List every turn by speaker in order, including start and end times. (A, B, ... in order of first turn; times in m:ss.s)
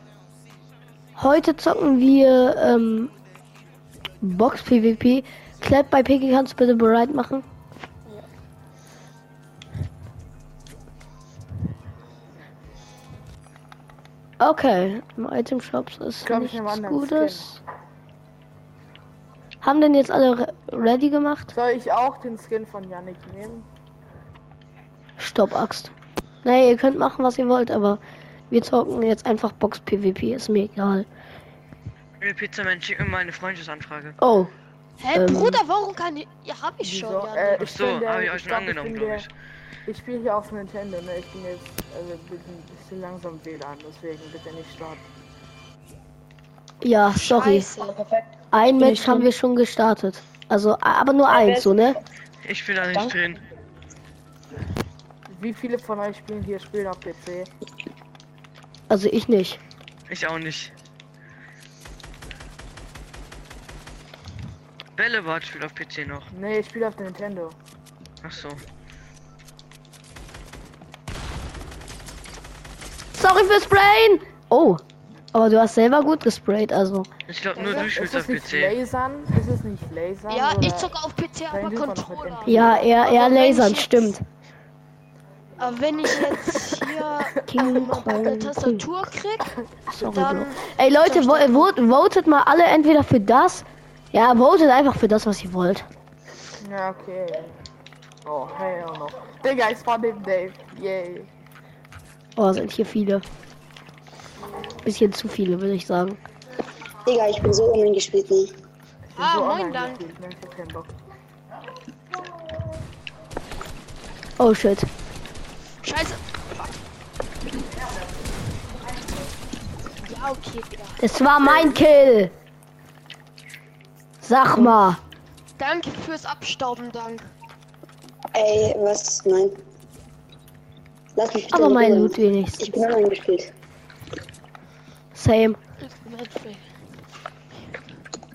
0:01.2-0:03.1 A
0:04.2-0:07.4 A
0:14.4-0:17.6 A
0:16.2-0:17.6 B
0:19.6-0:21.5 A
0:21.5-0:23.7 B
0:25.2-0:25.9 A
0:26.4-0:28.0 A
0:28.5-0:31.1 A
0:32.2-0:34.1 C
0:34.2-0:34.5 A
0:35.0-0:37.7 D
0:35.1-0:35.6 A
0:36.8-0:39.2 B
0:37.6-0:39.3 C
0:39.8-0:45.0 B
0:46.8-0:47.7 A
0:47.0-0:48.0 D
0:48.5-0:52.0 A
0:51.3-0:51.8 E
0:52.4-0:53.4 C
0:55.3-0:57.5 B
0:58.9-0:59.6 A
1:00.1-1:00.7 C
1:05.0-1:06.3 C
1:06.3-1:07.6 B
1:08.2-1:08.6 C
1:13.1-1:14.8 A
1:15.3-1:17.1 A
1:17.3-1:18.7 C
1:17.6-1:20.9 B
1:20.3-1:24.2 D
1:21.5-1:22.9 B
1:22.4-1:24.2 A
1:25.6-1:31.7 D
1:27.5-1:28.8 A
1:29.9-1:35.8 A
1:36.6-1:37.6 B
1:38.2-1:41.3 B
1:42.4-1:43.2 A
1:44.8-1:46.2 A
1:47.0-1:48.5 E
1:49.1-1:50.0 D
1:49.1-1:50.9 B
1:54.4-1:54.9 A
1:55.8-1:56.6 D
2:00.0-2:01.0 D
2:01.0-2:02.3 A
2:04.2-2:05.0 A
2:05.6-2:07.3 D
2:08.3-2:09.5 E
2:11.2-2:13.5 E
2:11.5-2:12.8 A
2:15.1-2:15.6 A
2:15.8-2:16.6 D